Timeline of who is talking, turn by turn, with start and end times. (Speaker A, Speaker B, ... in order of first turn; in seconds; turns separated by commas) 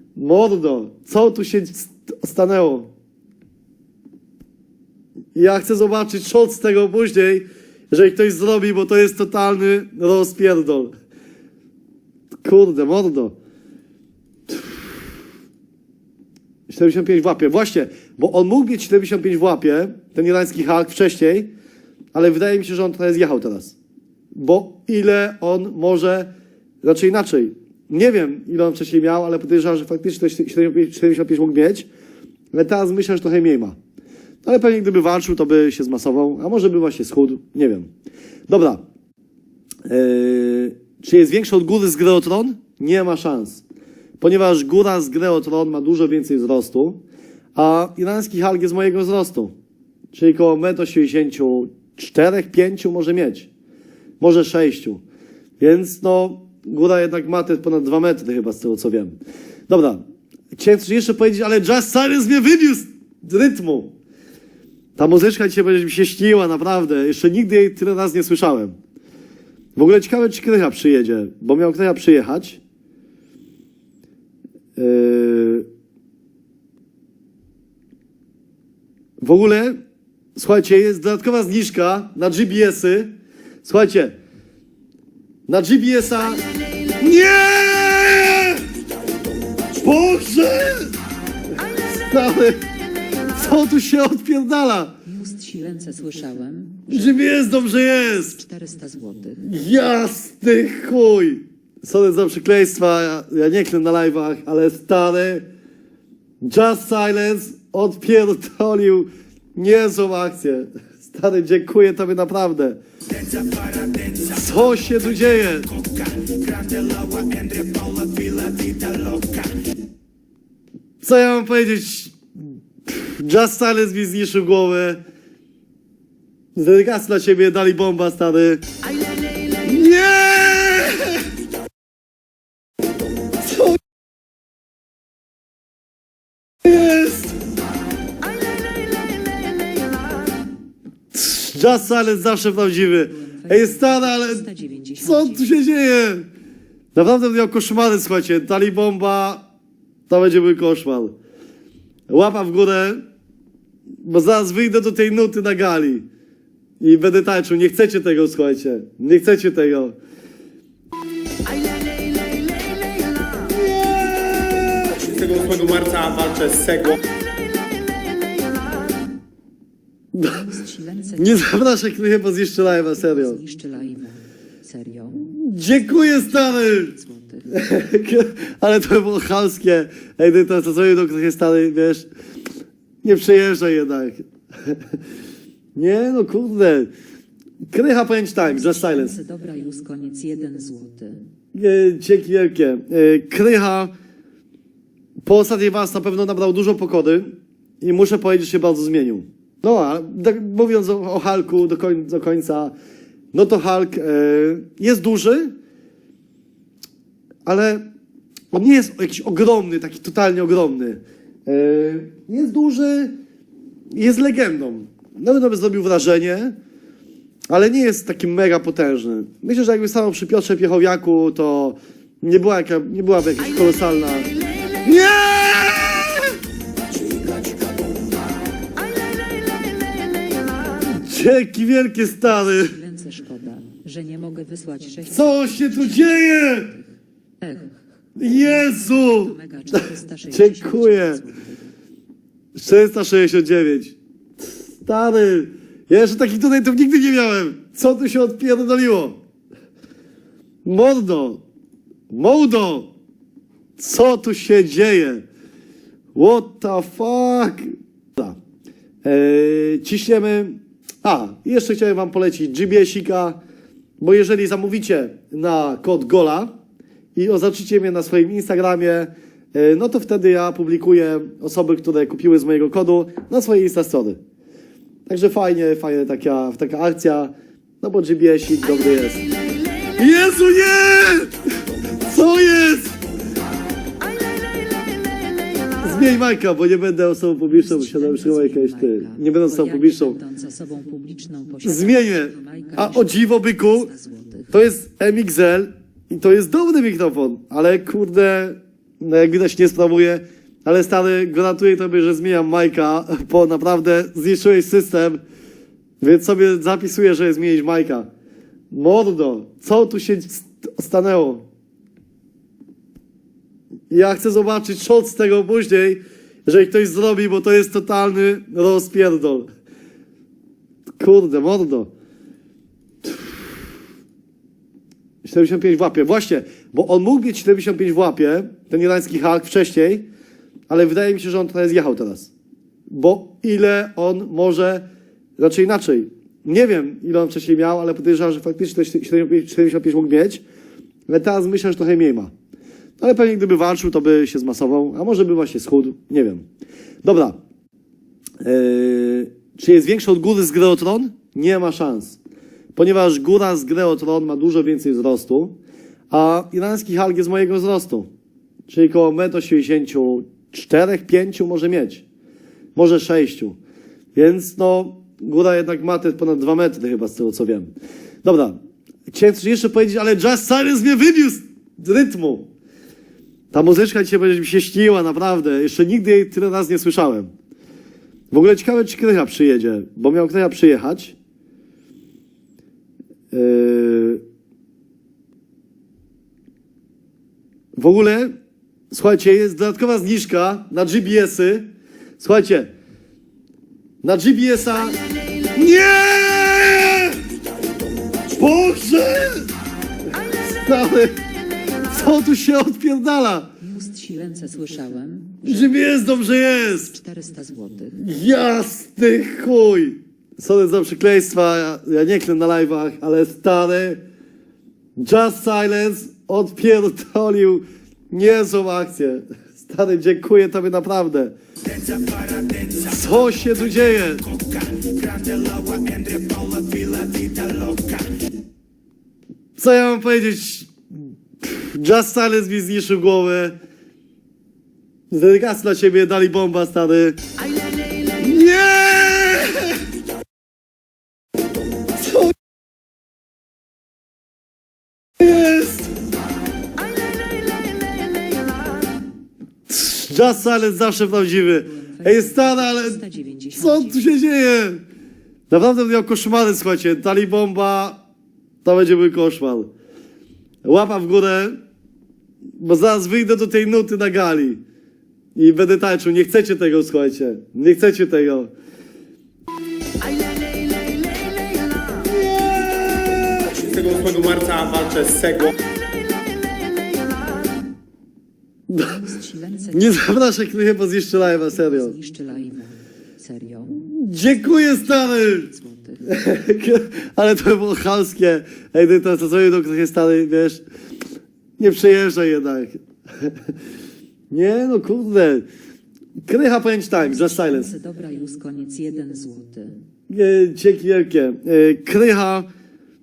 Speaker A: 0.2-2.9, Speaker A: 5.3-10.9, Speaker A: 12.4-13.3, Speaker A: 14.5-14.8, Speaker A: 16.7-21.5, Speaker A: 22.1-23.8, Speaker A: 24.4-26.3, Speaker A: 26.8-31.9, Speaker A: 32.5-33.8, Speaker A: 34.4-37.9, Speaker A: 38.5-38.8, Speaker A: 39.9-43.6, Speaker A: 44.2-47.0, Speaker A: 47.6-49.5, Speaker A: 50.1-53.5, Speaker A: 54.2-55.0, Speaker A: 55.6-59.2, Speaker A: 59.7-63.9, Speaker A: 65.0-68.8, Speaker A: 69.8-72.6, Speaker A: 74.8-75.7, Speaker A: 79.2-79.8, Speaker A: 80.4-83.1, Speaker A: 83.6-84.2, Speaker A: 85.5-86.4, Speaker A: 87.0-88.6, Speaker A: 89.8-90.9, Speaker A: 91.9-92.6, Speaker A: 93.3-95.0, Speaker B: 95.1-97.1, Speaker A: 96.9-98.4, Speaker B: 98.4-99.4, Speaker A: 99.4-105.5, Speaker A: 106.4-112.8, Speaker A: 114.1-115.8, Speaker A: 121.0-122.2, Speaker A: 122.9-125.0, Speaker A: 126.5-128.6, Speaker A: 129.6-131.2, Speaker A: 136.6-137.3, Speaker A: 141.1-144.5, Speaker B: 143.2-145.4, Speaker A: 145.0-146.3, Speaker A: 146.9-149.5, Speaker A: 150.1-151.1, Speaker A: 152.1-153.0, Speaker A: 154.0-156.1, Speaker A: 156.8-160.0, Speaker A: 164.0-165.0, Speaker C: 165.1-167.0, Speaker A: 170.2-170.4, Speaker B: 170.2-171.3, Speaker A: 171.2-173.4, Speaker B: 172.8-175.3, Speaker A: 175.2-177.0, Speaker B: 176.9-177.5, Speaker A: 177.5-182.1, Speaker A: 183.0-184.8, Speaker A: 185.8-186.9, Speaker A: 187.7-189.2, Speaker B: 188.7-191.2, Speaker A: 191.5-193.9, Speaker A: 195.2-202.7, Speaker A: 203.3-205.5, Speaker A: 207.4-207.8, Speaker A: 208.5-213.1, Speaker A: 213.9-216.6, Speaker A: 217.5-224.3, Speaker A: 224.8-226.4, Speaker A: 231.0-232.8, Speaker B: 232.6-236.1, Speaker A: 235.1-236.8, Speaker B: 237.4-237.7, Speaker A: 238.2-241.2, Speaker B: 238.6-241.5, Speaker A: 242.6-244.0, Speaker A: 244.8-249.2, Speaker A: 250.7-251.4, Speaker A: 252.1-252.9, Speaker A: 253.8-255.2, Speaker A: 256.1-258.4, Speaker A: 259.0-263.4, Speaker A: 264.0-266.5, Speaker A: 267.1-274.2, Speaker A: 275.1-279.3, Speaker A: 280.0-281.4, Speaker A: 282.0-283.0, Speaker A: 285.8-290.2, Speaker B: 287.5-293.2, Speaker A: 291.6-293.9, Speaker B: 293.9-294.5, Speaker A: 294.5-305.2, Speaker A: 306.0-308.1, Speaker A: 308.7-311.4, Speaker A: 313.9-319.5, Speaker A: 321.0-321.9, Speaker A: 325.2-330.1, Speaker A: 330.7-332.3, Speaker A: 332.9-334.8, Speaker A: 335.4-340.4, Speaker A: 341.1-342.3, Speaker A: 343.0-346.4, Speaker A: 347.0-347.4, Speaker A: 348.4-352.2, Speaker A: 352.8-355.6, Speaker A: 356.1-358.1, Speaker A: 358.7-362.1, Speaker A: 362.8-363.6, Speaker A: 364.1-367.7, Speaker A: 368.2-368.6, Speaker A: 369.1-372.5, Speaker A: 373.5-377.3, Speaker A: 378.3-381.2, Speaker A: 383.3-384.2, Speaker A: 387.8-388.3, Speaker A: 388.9-391.7, Speaker A: 392.2-392.7, Speaker A: 394.0-395.0, Speaker A: 395.6-397.2, Speaker A: 398.4-399.5, Speaker A: 400.3-401.2, Speaker A: 401.9-403.5, Speaker B: 403.6-405.8, Speaker A: 405.4-407.0, Speaker B: 406.8-408.0, Speaker A: 408.0-414.0, Speaker A: 415.0-421.4, Speaker A: 422.6-424.4, Speaker A: 429.6-430.7, Speaker A: 431.4-433.6, Speaker A: 435.1-437.2, Speaker A: 438.2-439.8, Speaker A: 445.2-445.9, Speaker A: 449.7-454.8, Speaker B: 451.7-454.0, Speaker A: 455.5-458.0, Speaker A: 458.6-459.7, Speaker A: 460.6-461.6, Speaker A: 462.6-464.6, Speaker A: 465.4-468.5, Speaker C: 473.6-475.6, Speaker A: 478.7-479.0, Speaker B: 478.8-479.9, Speaker A: 479.7-482.0, Speaker B: 481.4-483.8, Speaker A: 483.7-490.6, Speaker B: 485.4-486.0, Speaker A: 491.6-493.3, Speaker A: 494.3-495.4, Speaker A: 496.3-497.8, Speaker B: 497.3-499.8, Speaker A: 500.1-502.5